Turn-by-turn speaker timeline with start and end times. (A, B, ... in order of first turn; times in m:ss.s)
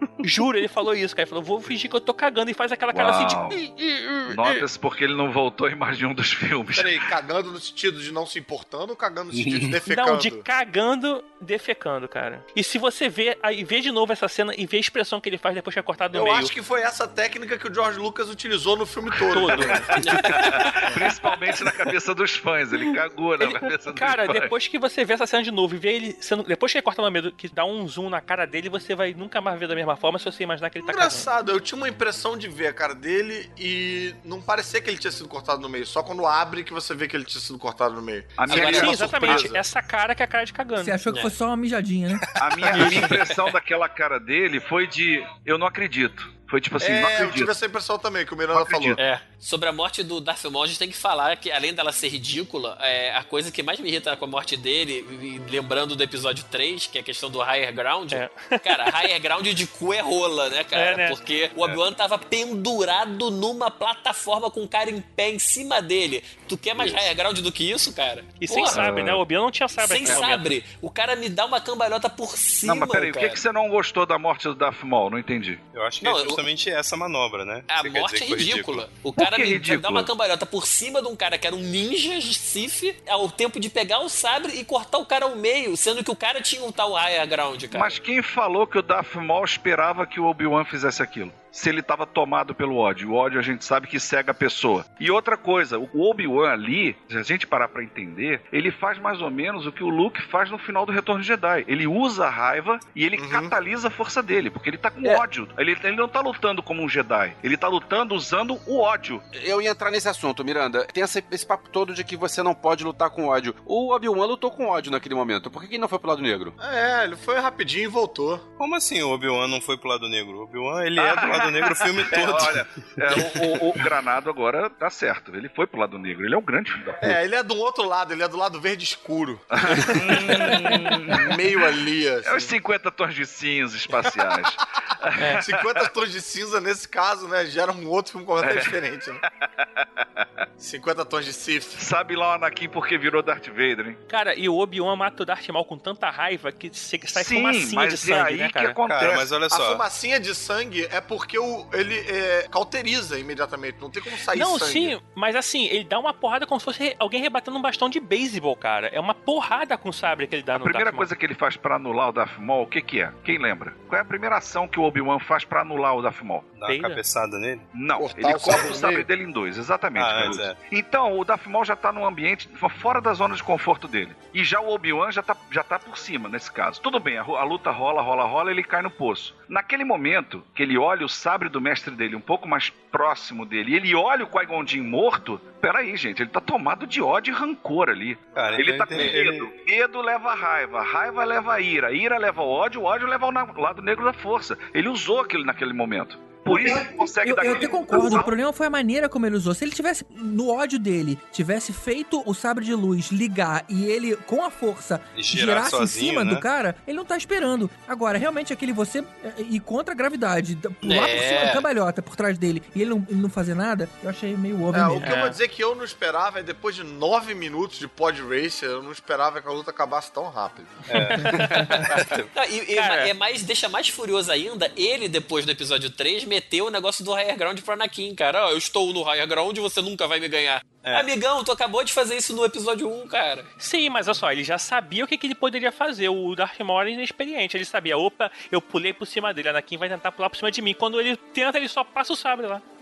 0:00.2-0:04.6 A
0:02.9-0:03.6 B
0:04.3-0:07.1 B
0:06.8-0:10.5 C
0:09.3-0:09.8 D
0:09.9-0:16.5 A
0:16.1-0:20.1 C
0:19.3-0:21.0 A
0:19.3-0:24.5 B
0:20.0-0:20.7 E
0:23.4-0:31.3 A
0:30.8-0:39.6 C
0:38.4-0:39.5 B
0:38.5-0:41.0 A
0:38.5-0:39.4 E
0:40.8-0:42.3 F
0:41.1-0:41.3 E
0:42.4-0:47.5 B
0:42.7-0:43.1 A
0:42.8-0:43.2 E
0:46.8-0:49.0 C
0:48.5-0:49.0 D
0:49.0-1:08.9 E
0:58.1-0:59.0 A
1:00.7-1:01.2 A
1:08.4-1:10.5 A
1:08.7-1:09.2 B
1:09.8-1:13.4 E
1:12.6-1:15.6 B
1:15.7-1:18.9 D
1:16.0-1:16.4 E
1:17.7-1:28.0 E
1:19.2-1:20.1 B
1:27.7-1:49.2 B
1:43.2-1:43.5 C
1:49.3-1:56.6 G
1:56.6-1:58.4 C
1:58.6-2:03.6 D
2:01.0-2:07.2 B
2:07.0-2:12.5 C
2:09.6-2:11.6 B
2:12.2-2:15.9 B
2:14.0-2:14.6 C
2:15.3-2:19.2 C
2:18.4-2:20.4 B
2:20.6-2:21.8 C
2:21.8-2:24.0 B
2:24.1-2:28.8 A
2:27.1-2:29.3 B
2:28.9-2:29.8 D
2:29.5-2:35.0 C
2:34.3-2:41.1 A
2:40.6-2:46.5 B
2:46.6-2:47.7 D
2:46.7-2:47.0 A
2:47.7-3:18.4 B
2:48.0-2:49.1 C
2:50.0-2:50.6 D
3:08.4-3:09.5 D
3:16.5-3:35.2 F
3:25.1-3:26.4 D
3:30.8-3:31.6 E
3:34.7-3:40.9 C
3:35.0-3:35.4 A
3:40.9-3:42.3 D
3:41.9-3:53.5 E
3:42.7-3:43.1 A
3:50.8-3:51.1 D
3:53.6-4:02.6 A